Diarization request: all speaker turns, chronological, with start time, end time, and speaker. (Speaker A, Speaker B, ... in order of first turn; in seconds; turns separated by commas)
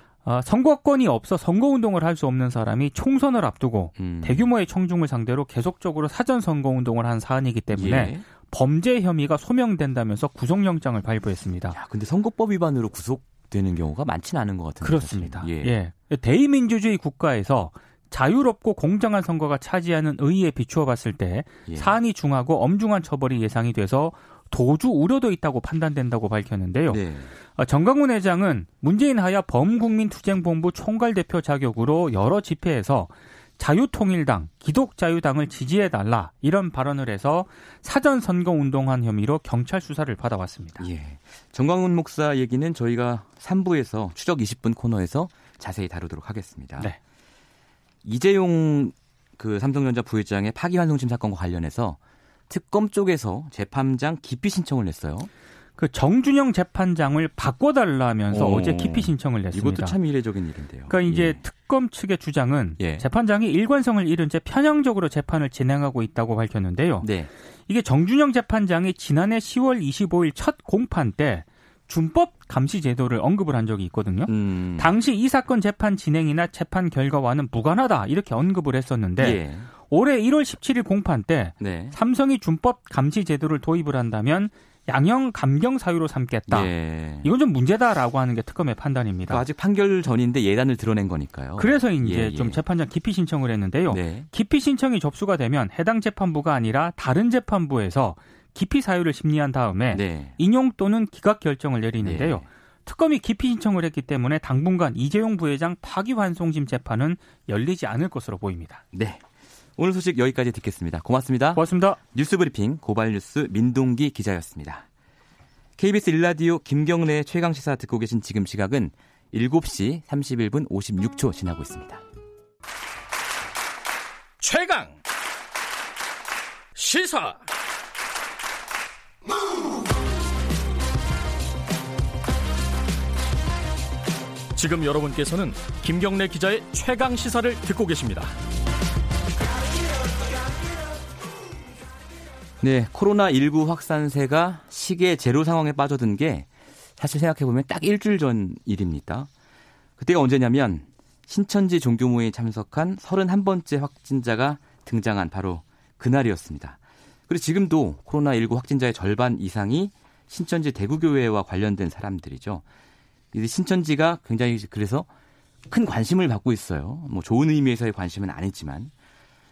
Speaker A: 0.2-11.8, Speaker B: 4.0-4.5, Speaker B: 7.7-8.2, Speaker B: 11.7-15.8, Speaker A: 14.8-27.0, Speaker B: 21.7-22.0, Speaker B: 26.9-27.3, Speaker A: 27.6-40.9, Speaker B: 40.8-46.9, Speaker B: 48.0-55.3, Speaker A: 55.8-60.0, Speaker B: 58.3-61.4, Speaker A: 60.9-67.1, Speaker B: 62.8-63.1, Speaker B: 67.0-67.3, Speaker A: 67.7-89.4, Speaker B: 74.3-74.9, Speaker B: 79.2-79.7, Speaker B: 81.6-82.0, Speaker B: 86.5-87.3, Speaker B: 89.3-92.6, Speaker A: 91.6-108.8, Speaker B: 93.9-94.3, Speaker B: 99.9-100.4, Speaker B: 102.0-102.5, Speaker B: 108.9-109.2, Speaker B: 109.8-114.9, Speaker A: 111.5-112.0, Speaker B: 115.8-122.0, Speaker C: 124.4-125.0, Speaker C: 126.8-127.4, Speaker C: 134.6-138.3, Speaker B: 142.6-149.3, Speaker B: 150.0-162.6, Speaker B: 163.3-165.1, Speaker B: 165.7-168.9